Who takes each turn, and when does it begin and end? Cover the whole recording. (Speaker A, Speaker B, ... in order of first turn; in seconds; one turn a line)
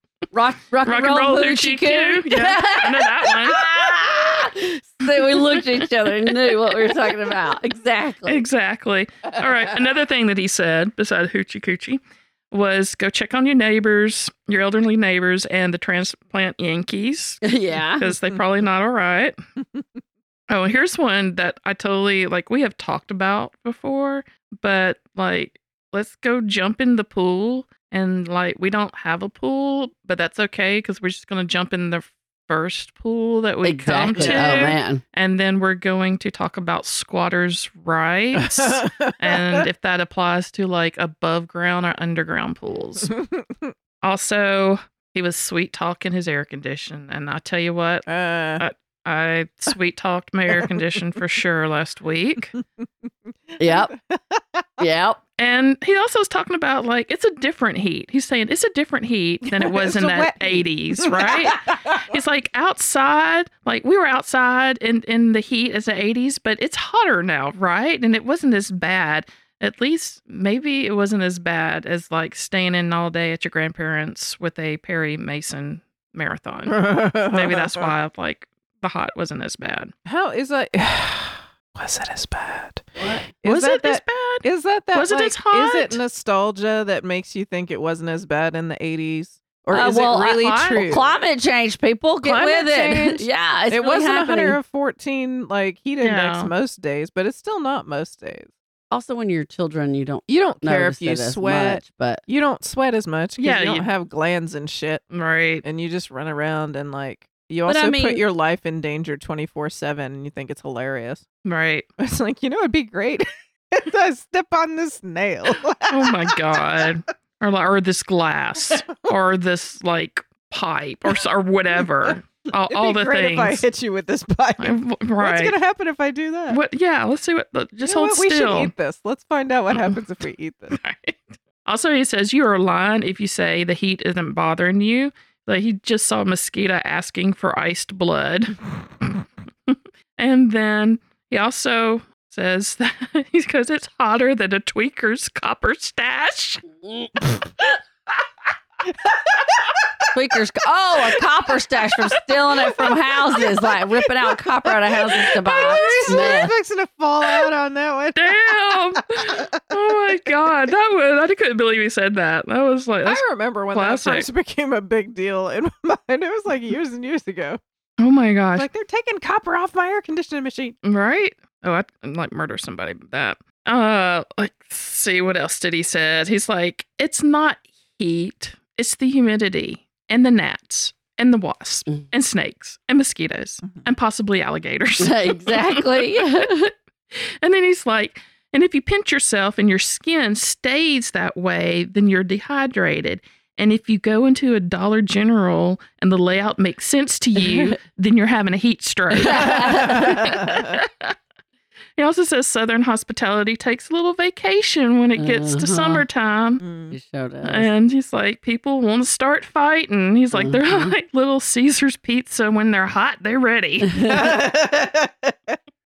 Speaker A: 0.3-8.4
Speaker B: 0.8-4.3
Speaker B: 5.0-7.2
Speaker B: 8.2-19.4
Speaker A: 17.4-18.1
Speaker B: 20.5-43.2
Speaker A: 33.6-35.0
Speaker C: 34.1-34.6
Speaker C: 38.3-39.6
Speaker C: 43.0-43.7
Speaker B: 44.0-48.1
Speaker C: 48.1-48.6
Speaker B: 48.6-52.5
Speaker C: 50.5-50.8
Speaker C: 53.5-54.8
Speaker A: 53.6-53.9
Speaker A: 54.8-55.2
Speaker B: 55.4-79.9
Speaker C: 59.4-62.1
Speaker C: 76.7-77.9
Speaker C: 80.0-91.2
Speaker A: 83.0-83.3
Speaker B: 83.4-86.0
Speaker A: 89.7-94.6
Speaker B: 89.7-90.8
Speaker C: 92.2-98.5
Speaker B: 96.0-96.5
Speaker A: 98.9-102.2
Speaker C: 100.3-105.0
Speaker B: 103.4-103.9
Speaker B: 105.1-105.6
Speaker C: 105.6-111.2
Speaker A: 107.7-108.2
Speaker B: 111.4-111.9
Speaker C: 112.0-116.9
Speaker B: 115.9-123.6
Speaker C: 121.8-122.1
Speaker C: 122.7-126.6
Speaker B: 124.6-125.5
Speaker B: 126.5-128.7
Speaker C: 127.8-130.8
Speaker B: 129.7-130.0
Speaker B: 130.7-146.6
Speaker A: 146.8-147.1
Speaker C: 149.0-149.6
Speaker A: 150.1-156.5
Speaker B: 152.1-153.4
Speaker C: 154.7-159.5
Speaker B: 155.2-156.4
Speaker B: 158.2-164.3
Speaker C: 163.0-167.6
Speaker B: 168.0-168.7
Speaker C: 168.5-170.8
Speaker B: 170.8-201.1
Speaker A: 185.0-186.7
Speaker A: 197.4-197.8
Speaker A: 199.1-200.3
Speaker C: 199.4-200.8
Speaker B: 202.0-206.6
Speaker A: 205.2-206.1
Speaker C: 206.6-206.9
Speaker A: 206.9-207.7
Speaker B: 207.4-214.3
Speaker A: 210.3-210.9
Speaker A: 213.8-214.2
Speaker C: 214.1-215.6